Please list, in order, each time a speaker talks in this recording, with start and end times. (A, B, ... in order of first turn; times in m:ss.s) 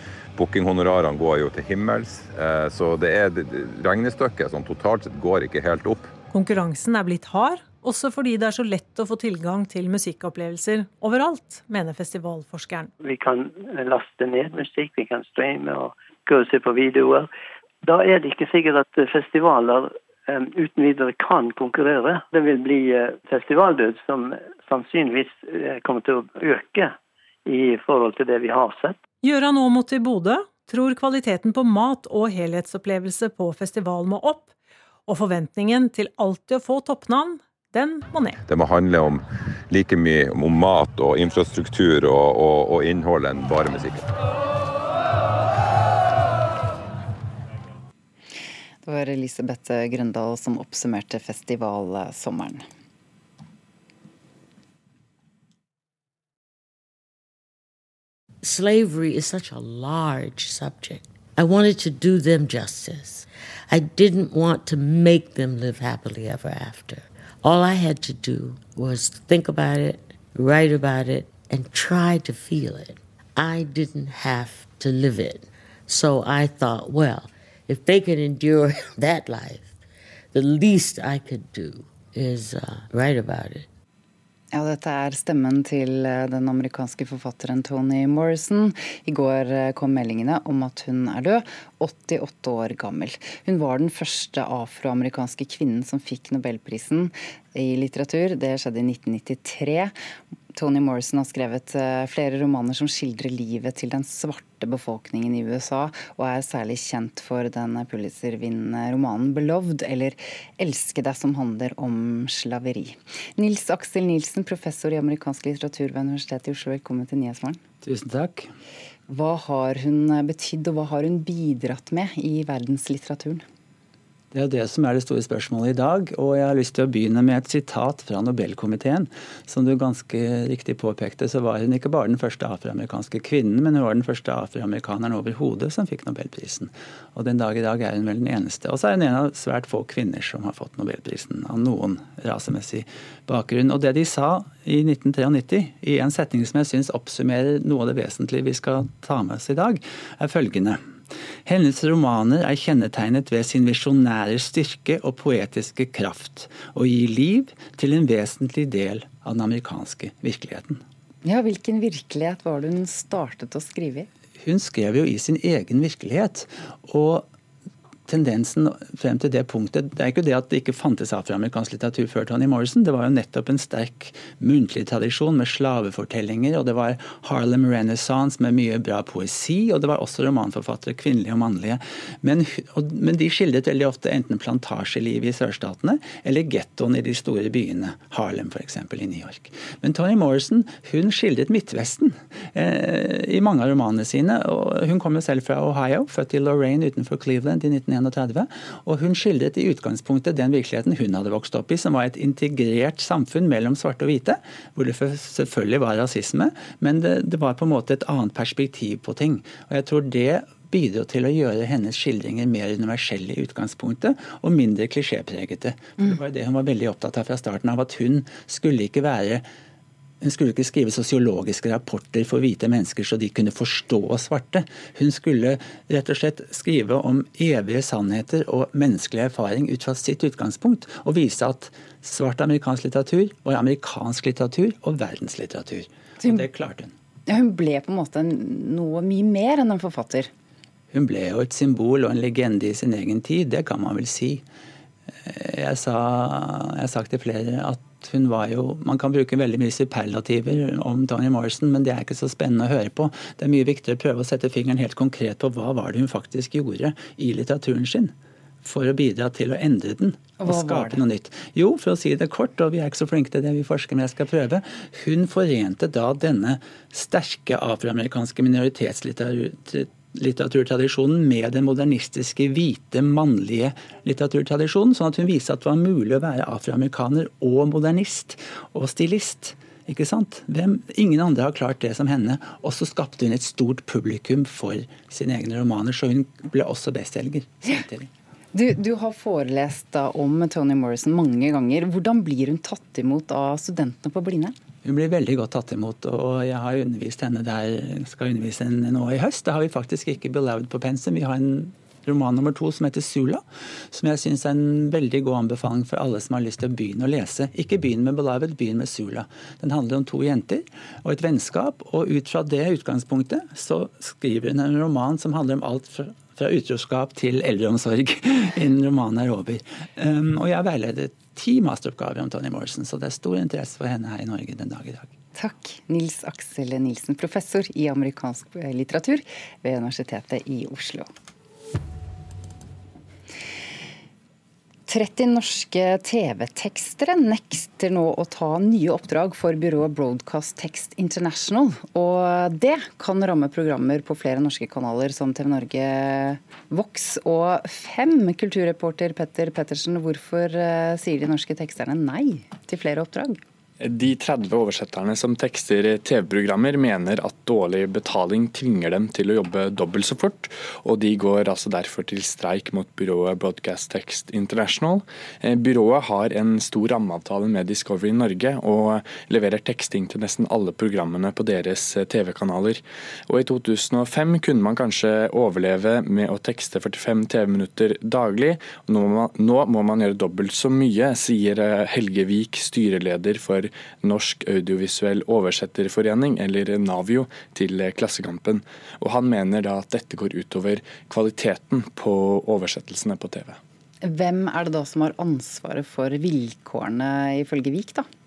0:00.4-0:06.1 A
0:06.3-0:12.9 B
0:13.0-0:17.3 C
0:17.8-0:29.0 C
0:29.2-0:34.5 B
0:35.1-0:38.4 B
0:38.5-0:44.1 A
0:48.8-0:52.6 D
0:58.4-1:19.7 E
1:20.3-1:23.7 E
1:24.5-1:39.9 D
1:40.5-1:57.6 D
1:57.8-1:58.5 F
1:59.1-2:03.4 D
2:04.3-2:30.8 F
2:31.4-2:40.8 F
2:41.2-2:44.1 D
2:44.4-2:47.3 F
2:48.1-3:39.4 F
3:40.2-3:56.9 F
3:57.3-4:00.3 D
4:00.9-4:04.4 F
4:05.2-4:48.1 F
4:20.4-4:21.0 D
4:48.5-4:54.5 D
4:54.8-5:25.1 F
5:25.3-5:31.1 D
5:34.9-5:53.4 D
5:53.8-6:33.6 G
6:34.0-6:38.0 D